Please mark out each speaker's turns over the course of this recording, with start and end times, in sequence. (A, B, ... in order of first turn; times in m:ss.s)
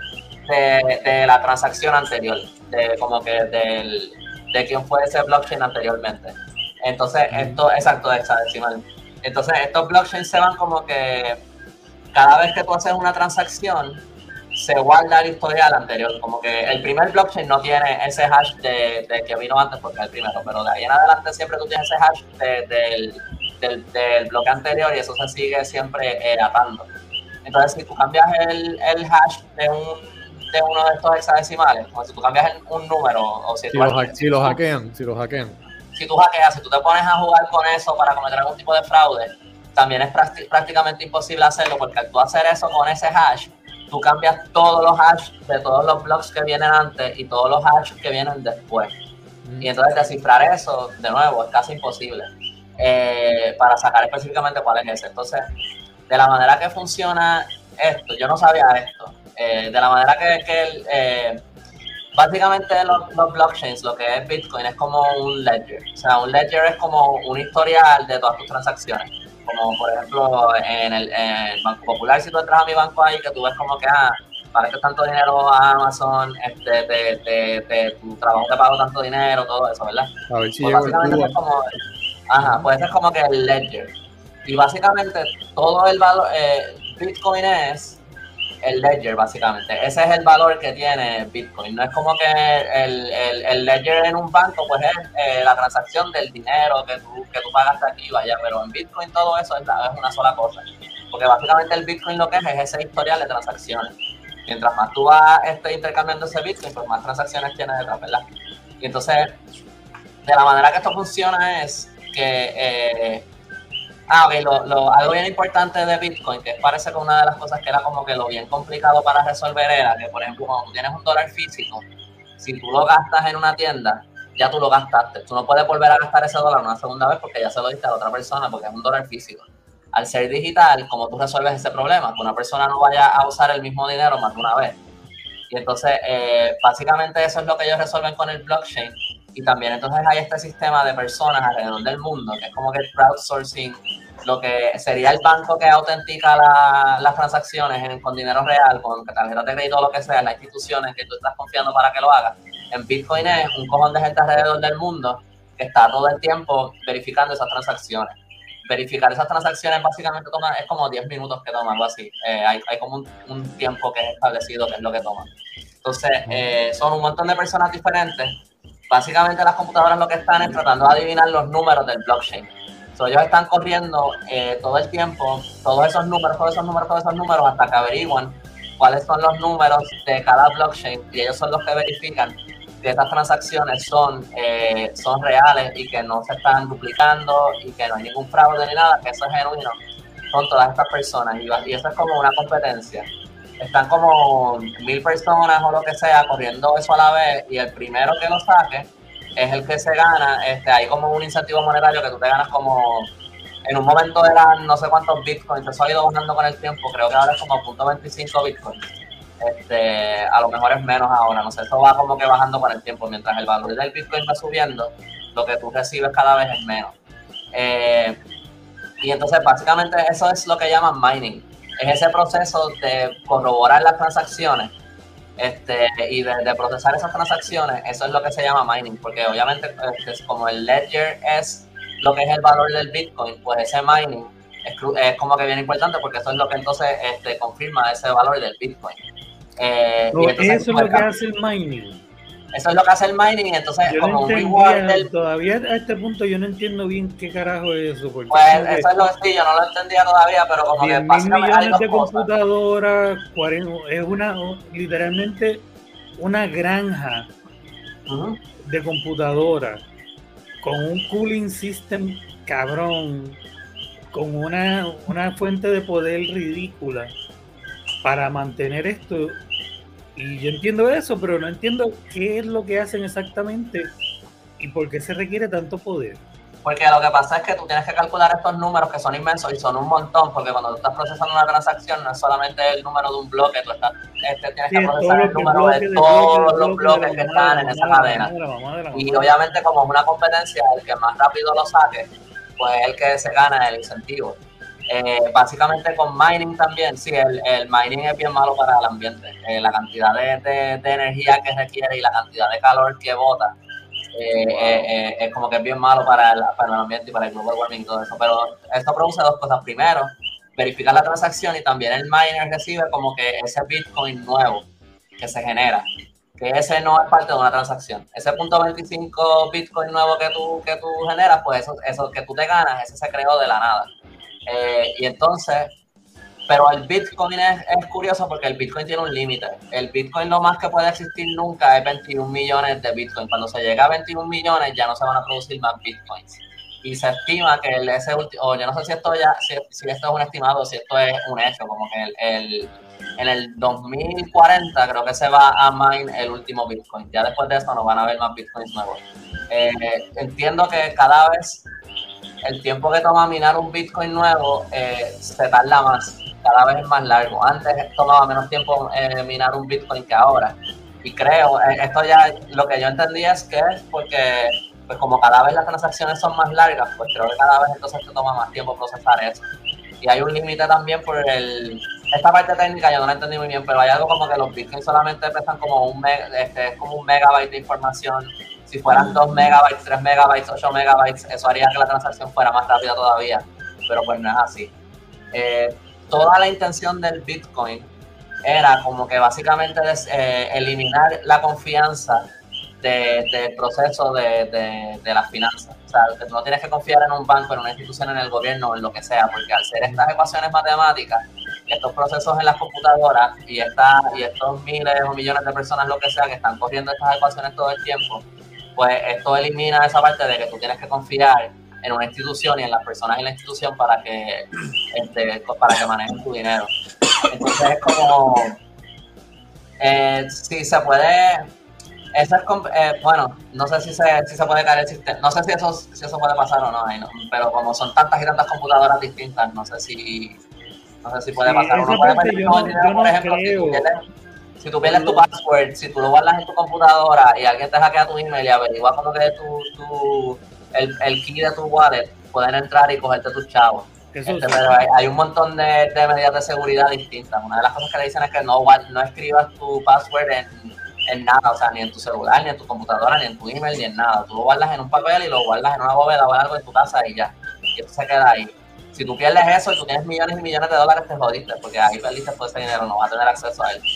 0:00.4-0:11.4 A
0:07.3-0:07.6 B
0:12.1-0:14.0 A
0:14.5-0:26.9 A
0:27.4-0:34.6 A
0:33.7-0:35.6 B
0:35.9-0:48.9 A
0:49.4-0:49.7 C
0:49.6-0:55.4 A
0:56.1-1:01.4 A
1:02.2-1:20.1 A
1:20.3-1:21.3 B
1:20.6-1:23.9 A
1:22.4-1:22.7 B
1:24.4-1:28.0 A
1:28.6-1:43.9 A
1:44.5-1:48.2 A
1:48.8-1:49.3 A
1:50.2-1:53.2 A
1:54.1-2:01.8 A
2:02.4-2:14.8 A
2:15.5-2:38.1 A
2:38.6-2:45.3 A
2:45.8-3:09.8 A
3:10.3-3:13.1 A
3:13.6-3:23.1 A
3:23.6-3:28.8 A
3:29.4-3:36.9 A
3:37.5-3:38.2 A
3:39.0-3:44.7 A
3:45.4-3:59.0 A
3:59.6-4:01.1 A
4:00.1-4:02.0 C
4:02.5-4:05.1 A
4:03.9-4:08.9 C
4:08.3-4:12.3 A
4:10.8-4:15.6 C
4:16.2-4:17.3 C
4:18.1-4:18.4 A
4:18.6-4:19.8 C
4:20.6-4:23.4 C
4:24.1-4:27.1 C
4:28.0-4:29.4 C
4:30.2-4:33.9 C
4:34.6-4:36.2 C
4:36.6-4:48.3 A
4:44.7-4:49.3 C
4:48.9-4:54.4 A
4:54.9-5:03.6 A
5:04.1-5:14.7 A
5:04.4-5:04.9 B
5:15.2-5:23.9 A
5:24.5-5:25.7 A
5:26.5-5:51.6 A
5:52.4-6:09.4 A
6:10.0-6:24.7 A
6:18.9-6:19.5 C
6:25.3-6:27.9 A
6:28.4-6:32.3 A
6:32.8-6:48.2 A
6:48.8-6:56.7 A
6:57.3-6:58.6 A
6:59.8-7:01.5 A
7:02.1-7:10.4 A
7:11.0-7:14.0 A
7:11.4-7:13.9 C
7:14.6-7:43.8 A
7:14.8-7:15.2 C
7:24.1-7:24.8 C